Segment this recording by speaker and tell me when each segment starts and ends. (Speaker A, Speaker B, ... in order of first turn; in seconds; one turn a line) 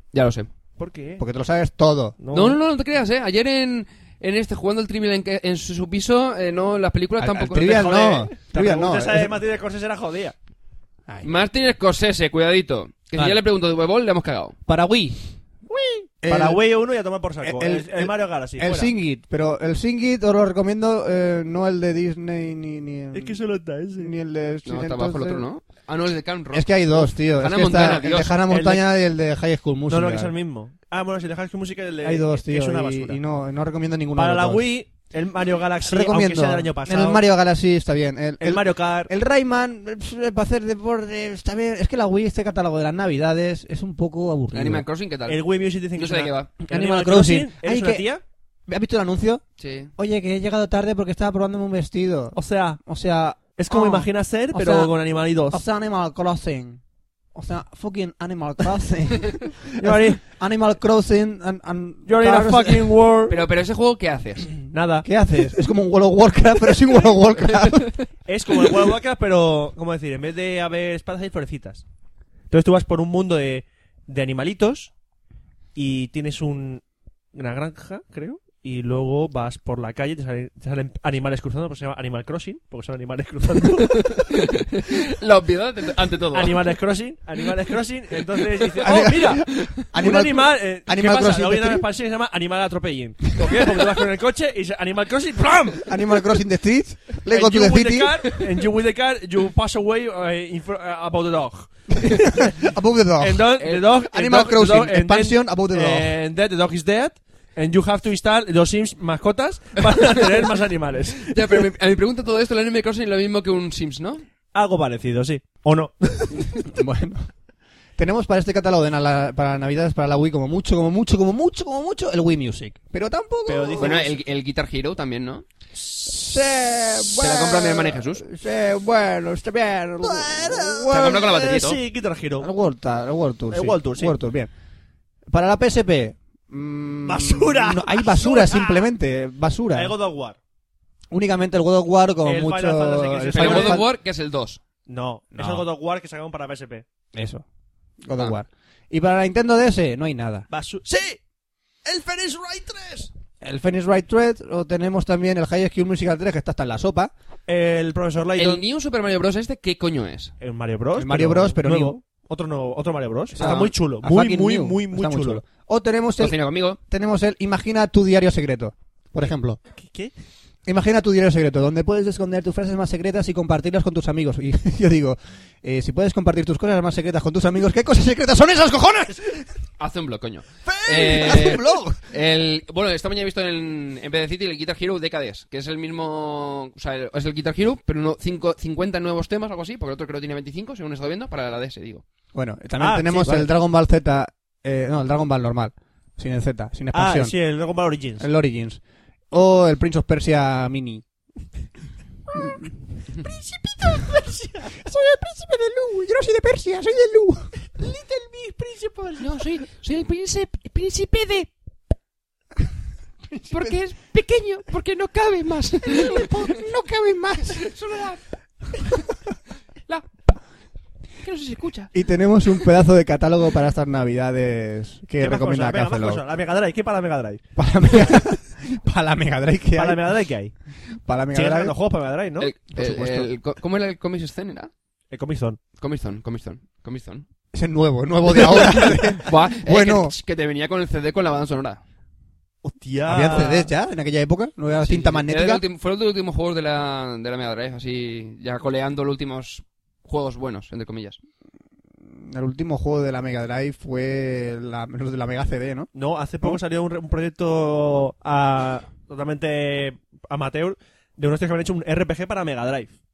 Speaker A: 0.1-0.5
Speaker B: 0.8-1.2
Speaker C: 1.2-2.2
Speaker B: 2.2-2.6
Speaker A: 2.3-8.0
Speaker C: 7.2-9.4
Speaker B: 7.6-10.3
Speaker A: 11.2-14.6
Speaker C: 13.2-13.4
Speaker C: 14.7-15.2
Speaker B: 15.7-18.9
Speaker C: 16.2-16.6
Speaker C: 17.4-23.4
Speaker B: 23.1-24.1
Speaker C: 24.0-25.4
Speaker A: 24.7-28.4
Speaker C: 26.5-30.3
Speaker B: 28.5-28.9
Speaker B: 29.9-33.2
Speaker C: 32.0-34.7
Speaker B: 34.2-37.2
Speaker C: 35.8-44.8
Speaker B: 38.4-39.1
Speaker A: 44.5-45.4
Speaker B: 45.3-48.2
Speaker A: 46.0-46.5
Speaker C: 46.7-48.1
Speaker C: 48.7-49.5
Speaker A: 49.6-49.9
Speaker C: 50.0-54.9
Speaker B: 52.4-52.8
Speaker B: 53.6-55.6
Speaker C: 55.5-56.8
Speaker C: 57.3-62.9
Speaker B: 59.8-60.2
Speaker B: 62.1-63.4
Speaker A: 63.3-64.5
Speaker B: 64.7-65.1
Speaker C: 65.0-67.9
Speaker B: 68.3-71.8
Speaker B: 72.5-74.9
Speaker B: 75.8-76.8
Speaker B: 77.3-84.4
Speaker A: 84.1-86.6
Speaker B: 86.3-96.2
Speaker C: 88.8-91.8
Speaker C: 95.9-98.3
Speaker B: 97.2-102.5
Speaker C: 102.0-106.1
Speaker B: 103.2-111.7
Speaker A: 111.2-114.2
Speaker B: 114.5-116.7
Speaker C: 116.7-117.3
Speaker C: 118.0-124.0
Speaker B: 123.5-124.1
Speaker A: 123.8-125.5
Speaker B: 125.8-126.1
Speaker C: 126.0-131.3
Speaker A: 127.2-128.2
Speaker B: 130.0-132.5
Speaker A: 130.9-131.8
Speaker C: 132.4-134.5
Speaker B: 133.5-134.2
Speaker C: 135.3-139.9
Speaker B: 137.1-138.9
Speaker B: 139.7-140.4
Speaker C: 141.1-143.9
Speaker B: 142.2-143.8
Speaker A: 143.4-144.6
Speaker B: 144.9-146.8
Speaker C: 145.3-145.7
Speaker C: 147.1-147.4
Speaker C: 148.0-150.5
Speaker B: 150.5-151.2
Speaker B: 151.8-153.1
Speaker C: 153.4-157.1
Speaker B: 157.5-158.6
Speaker A: 158.4-160.3
Speaker B: 160.4-165.4
Speaker C: 161.0-162.0
Speaker C: 163.3-169.6
Speaker A: 163.4-163.7
Speaker A: 166.2-166.8
Speaker B: 169.8-170.1
Speaker C: 170.7-179.4
Speaker A: 179.8-192.0
Speaker C: 180.7-182.0
Speaker C: 192.3-197.4
Speaker B: 192.8-193.5
Speaker B: 196.9-198.3
Speaker C: 198.2-201.0
Speaker B: 202.3-202.6
Speaker B: 203.2-204.9
Speaker C: 204.8-207.5
Speaker B: 207.8-209.4
Speaker A: 209.2-211.5
Speaker C: 213.3-213.8
Speaker A: 213.5-216.6
Speaker B: 216.0-216.5
Speaker C: 216.0-217.6
Speaker A: 217.6-218.2
Speaker A: 221.2-221.9
Speaker C: 221.9-226.2
Speaker B: 225.2-227.4
Speaker C: 227.6-230.1
Speaker B: 229.8-230.5
Speaker C: 231.1-231.8
Speaker B: 231.3-232.5
Speaker A: 232.4-234.7
Speaker C: 232.7-233.3
Speaker B: 235.1-235.6
Speaker A: 235.8-237.3
Speaker C: 237.5-240.2
Speaker A: 238.7-241.8
Speaker B: 242.6-243.7
Speaker C: 243.1-245.6
Speaker A: 244.8-251.2
Speaker C: 252.1-255.9
Speaker B: 255.9-262.9